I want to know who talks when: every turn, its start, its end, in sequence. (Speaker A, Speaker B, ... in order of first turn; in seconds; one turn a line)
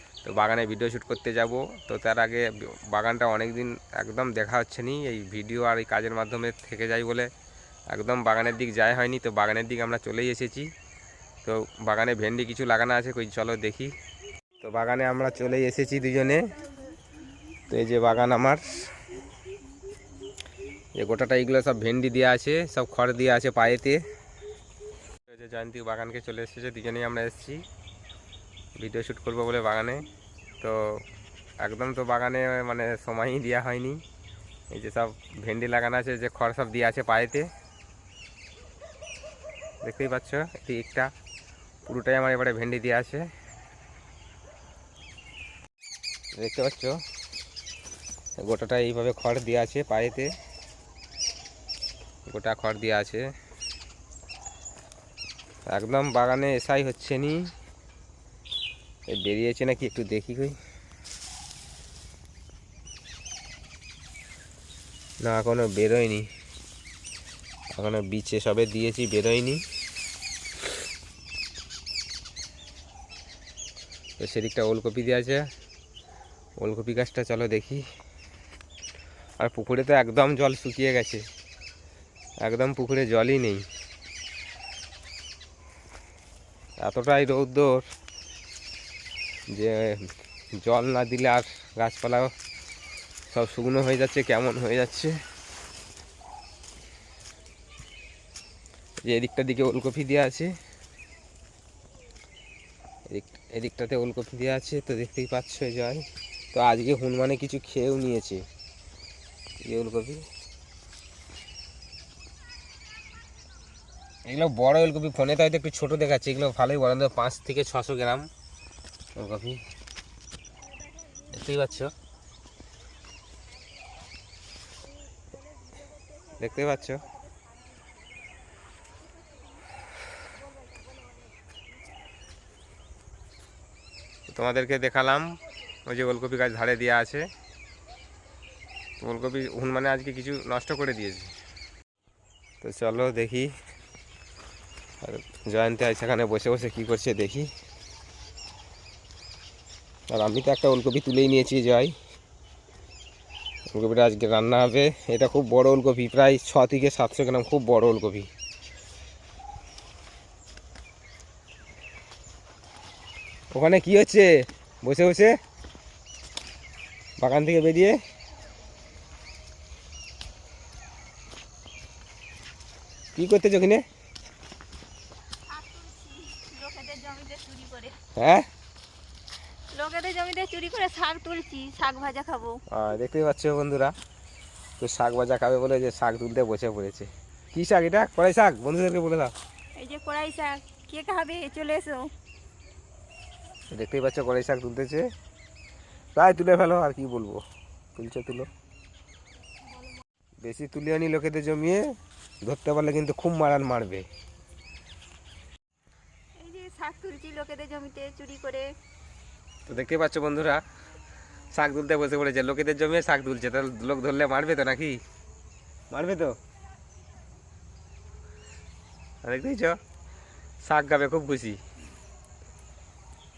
Speaker A: 0.2-7.3
Speaker A: 7.9-10.7
Speaker A: 11.4-13.9
Speaker A: 14.6-16.5
Speaker A: 17.7-18.9
Speaker A: 21.0-24.0
Speaker A: 25.3-27.6
Speaker A: 28.8-30.0
Speaker A: 30.6-31.0
Speaker A: 31.6-34.0
Speaker A: 34.7-37.5
Speaker A: 39.8-41.1
Speaker A: 41.9-43.3
Speaker A: 46.4-47.0
Speaker A: 48.4-50.3
Speaker A: 52.3-53.3
Speaker A: 55.7-57.5
Speaker A: 59.1-60.6
Speaker A: 65.2-66.3
Speaker A: 67.7-69.6
Speaker A: 74.2-75.4
Speaker A: 76.6-77.8
Speaker A: 79.4-81.2
Speaker A: 82.4-83.7
Speaker A: 86.8-87.9
Speaker A: 89.5-92.3
Speaker A: 93.3-95.2
Speaker A: 99.0-100.5
Speaker A: 103.1-108.5
Speaker A: 109.6-110.2
Speaker A: 114.3-118.3
Speaker A: 119.2-119.6
Speaker A: 121.3-121.9
Speaker A: 126.4-127.0
Speaker A: 134.3-137.3
Speaker A: 139.0-141.3
Speaker A: 142.6-143.5
Speaker A: 145.0-147.5
Speaker A: 150.1-151.9
Speaker A: 153.7-158.3
Speaker A: 163.5-165.4
Speaker A: 167.2-168.0
Speaker A: 173.2-173.8
Speaker B: 175.5-178.0
Speaker A: 178.2-178.5
Speaker B: 179.7-182.6
Speaker A: 182.7-183.9
Speaker A: 184.8-189.3
Speaker B: 189.8-192.1
Speaker A: 193.7-195.1
Speaker A: 196.2-197.4
Speaker A: 198.0-198.5
Speaker A: 200.4-201.9
Speaker A: 202.4-204.1
Speaker B: 206.4-208.7
Speaker A: 209.7-210.6
Speaker A: 211.5-215.0
Speaker A: 215.9-216.4
Speaker A: 219.2-219.8
Speaker A: 220.6-221.6